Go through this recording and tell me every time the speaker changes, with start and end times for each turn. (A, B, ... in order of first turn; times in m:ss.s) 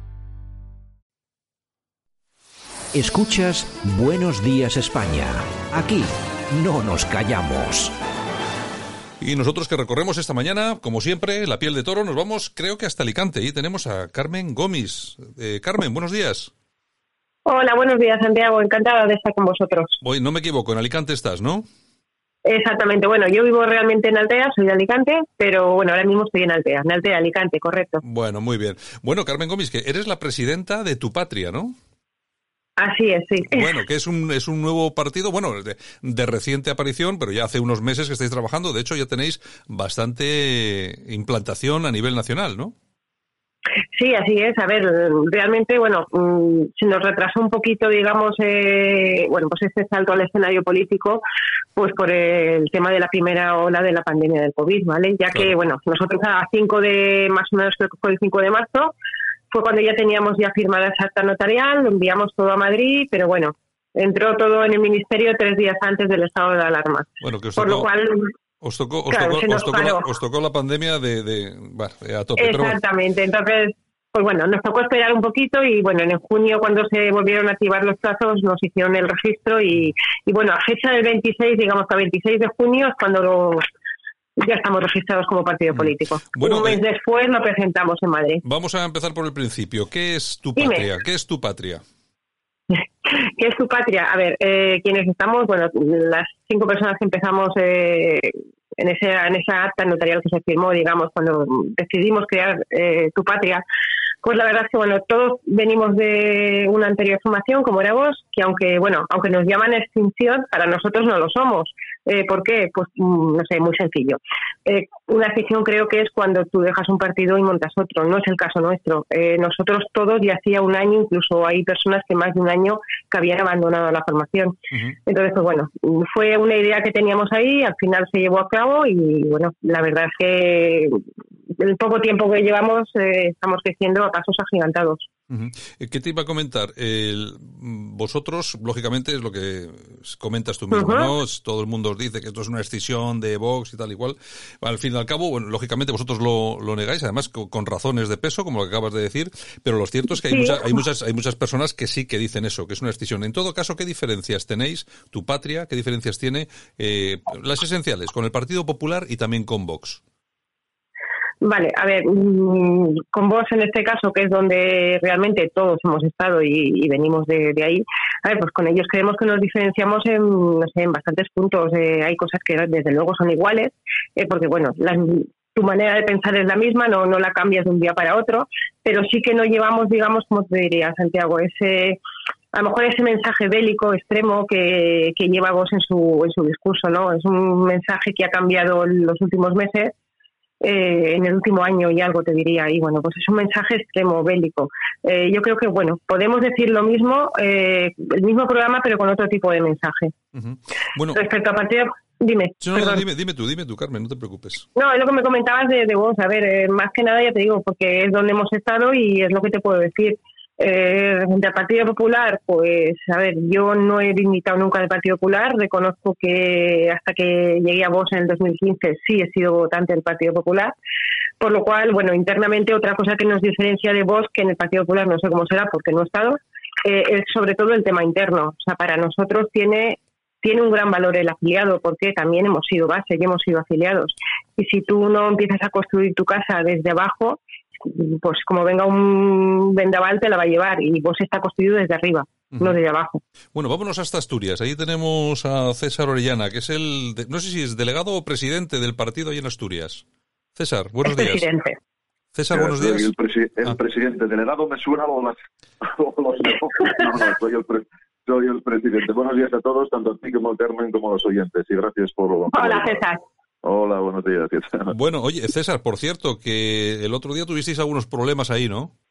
0:02.9-0:07.9 A
0:09.2-0:16.5 B
0:17.4-0:20.0 C
0:20.0-0:21.6 B
0:22.4-0:28.0 C
0:28.0-0:31.8 B
0:32.8-0:33.7 C
0:33.5-0:42.7 B
0:43.9-0:51.2 C
0:51.8-0:58.9 C
0:59.5-1:08.3 C
1:07.2-1:07.9 B
1:08.6-1:12.8 B
1:09.1-1:10.1 C
1:12.4-1:23.6 C
1:24.4-1:28.4 C
1:25.7-1:26.8 B
1:28.4-1:31.8 B
1:30.6-1:30.9 C
1:32.7-1:43.6 C
1:44.2-2:15.1 C
2:15.3-2:40.0 B
2:20.7-2:21.1 C
2:30.2-2:30.7 C
2:41.4-3:02.0 C
3:02.5-3:09.9 C
3:10.6-3:20.1 C
3:20.4-3:21.2 B
3:21.1-3:23.0 C
3:22.6-3:24.7 B
3:24.8-3:40.7 C
3:41.4-4:03.2 C
4:03.5-4:10.0 B
4:10.6-4:11.5 B
4:11.0-4:11.8 C
4:12.4-4:13.1 B
4:12.5-4:23.0 D
4:22.5-4:23.2 C
4:23.6-4:24.9 D
4:24.9-4:28.9 B